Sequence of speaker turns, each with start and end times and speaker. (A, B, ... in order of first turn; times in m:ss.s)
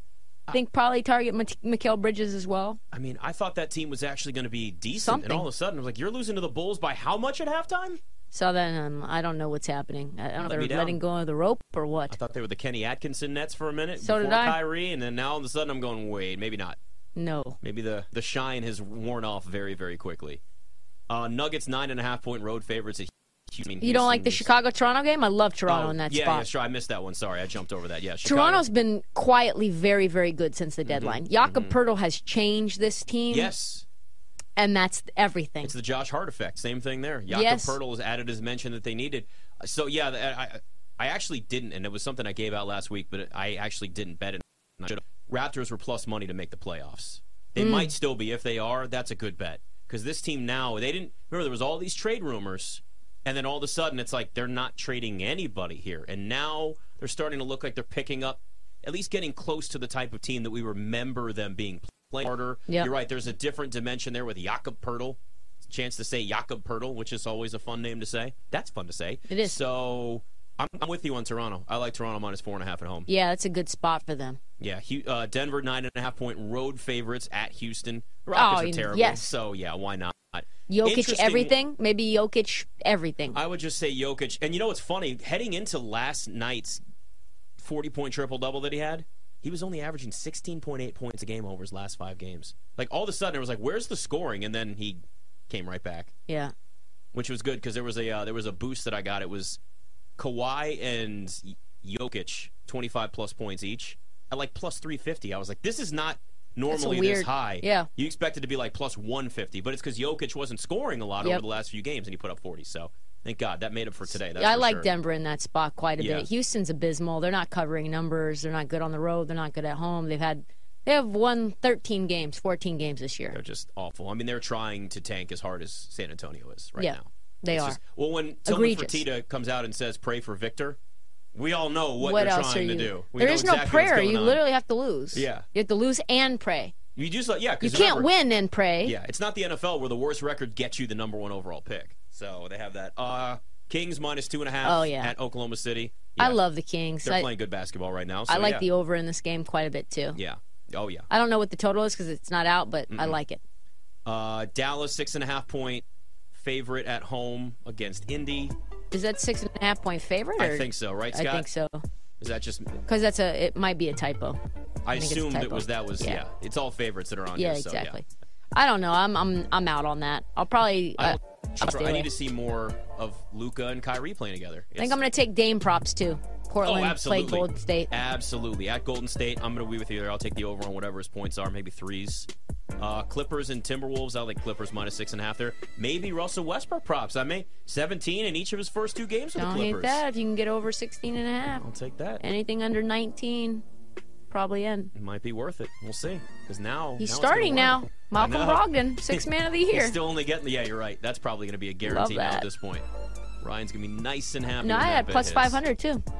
0:00.5-0:02.8 A
0:02.9-0:08.0 B
0:04.9-0:05.5 A
0:08.3-0:12.2 A
0:10.4-0:11.0 B
0:12.1-0:16.8 B
0:14.0-0:14.6 A
0:17.2-0:17.6 A
0:17.6-0:20.4 B
0:21.1-0:24.5 B
0:23.8-0:26.5 A
0:25.7-0:28.6 B
0:28.2-0:33.5 A
0:30.8-0:31.8 B
0:33.3-0:33.8 B
0:34.6-0:35.7 A
0:35.6-1:13.1 B
0:37.3-0:37.8 A
0:47.6-0:47.9 A
1:09.3-1:09.6 A
1:13.1-1:14.4 A
1:14.6-1:21.5 B
1:18.3-1:19.3 A
1:20.7-1:23.4 A
1:23.3-1:26.8 B
1:27.6-1:36.1 B
1:36.3-1:36.5 A
1:37.1-1:39.6 B
1:40.2-1:54.9 B
1:46.7-1:47.9 A
1:54.1-2:03.4 A
1:56.0-1:56.3 B
2:03.3-2:10.8 B
2:06.8-2:07.8 A
2:08.5-2:09.0 A
2:11.3-2:14.4 B
2:12.0-2:16.8 A
2:15.1-2:15.5 B
2:17.0-2:18.1 B
2:17.6-2:19.0 A
2:18.8-2:26.4 B
2:24.6-2:25.1 A
2:26.2-2:27.3 A
2:27.0-2:28.7 B
2:28.3-2:30.2 A
2:30.1-2:31.1 B
2:31.1-2:33.4 A
2:32.9-2:33.2 B
2:34.0-2:38.5 B
2:38.9-2:41.8 A
2:40.4-2:41.5 B
2:42.2-2:42.8 B
2:42.8-2:44.4 A
2:44.8-2:48.0 B
2:45.0-2:46.2 A
2:47.4-2:52.1 A
2:51.0-2:55.0 B
2:54.8-2:57.9 A
2:56.6-3:10.0 B
3:09.4-3:11.6 A
3:11.5-3:12.2 B
3:12.2-3:13.6 A
3:14.3-3:14.9 A
3:14.9-3:22.8 B
3:17.0-3:20.0 A
3:21.8-3:22.5 A
3:23.4-3:25.6 B
3:24.6-3:26.0 A